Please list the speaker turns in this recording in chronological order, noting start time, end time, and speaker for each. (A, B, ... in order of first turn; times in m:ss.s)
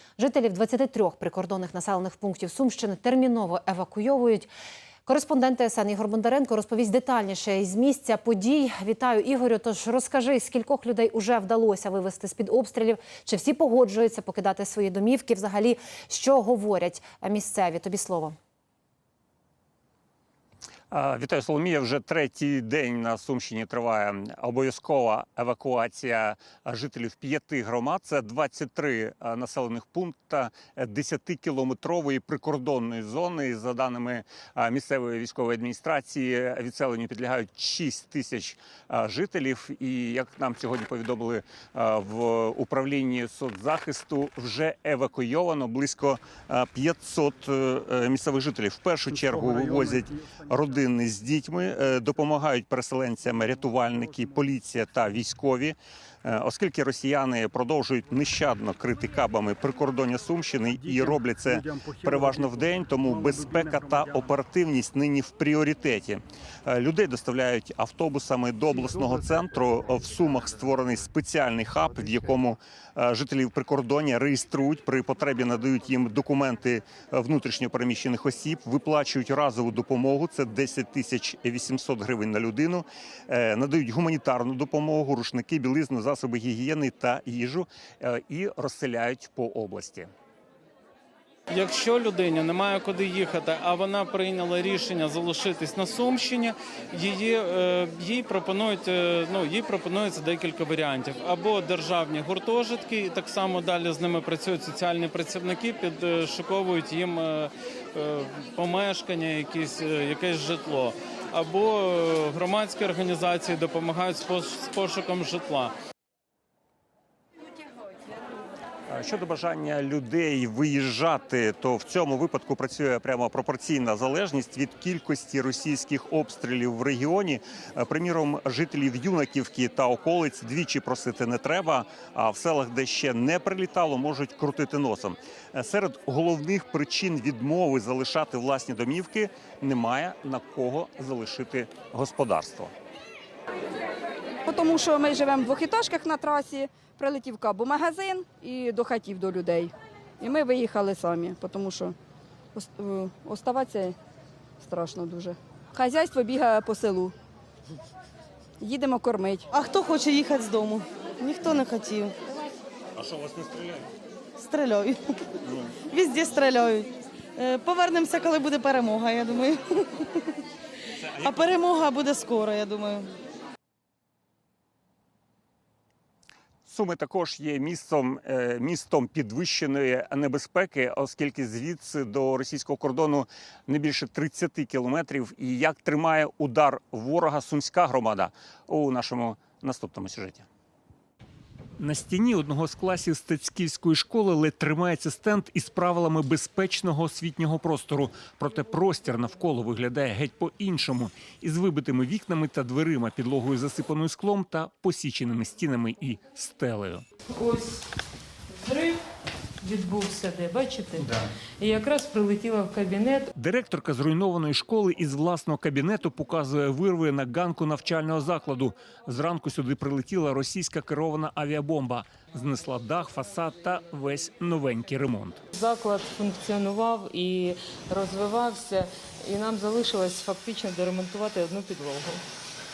0:00.2-0:04.5 A
0:05.1-0:18.4 A
0:20.9-1:30.1 B
0:49.1-0:50.7 C
0:54.0-0:54.3 C
1:00.8-1:02.5 C
1:03.0-1:04.2 C
1:31.5-1:55.7 C
1:58.9-2:22.7 B
2:24.6-2:29.7 D
2:30.3-2:31.9 D
2:33.4-2:33.9 D
2:35.1-2:37.1 D
2:38.7-2:39.5 D
2:39.6-2:42.2 E
2:43.2-2:43.7 B
2:44.4-2:45.1 E
2:45.9-2:49.8 E
2:51.2-2:51.5 B
2:51.2-2:53.1 E
2:56.7-3:10.5 B
3:11.8-3:27.0 B
3:27.3-3:27.8 F
3:28.6-3:29.0 F
3:29.6-3:31.1 F
3:31.6-3:33.3 F
3:33.4-3:45.4 B
3:45.6-3:52.2 F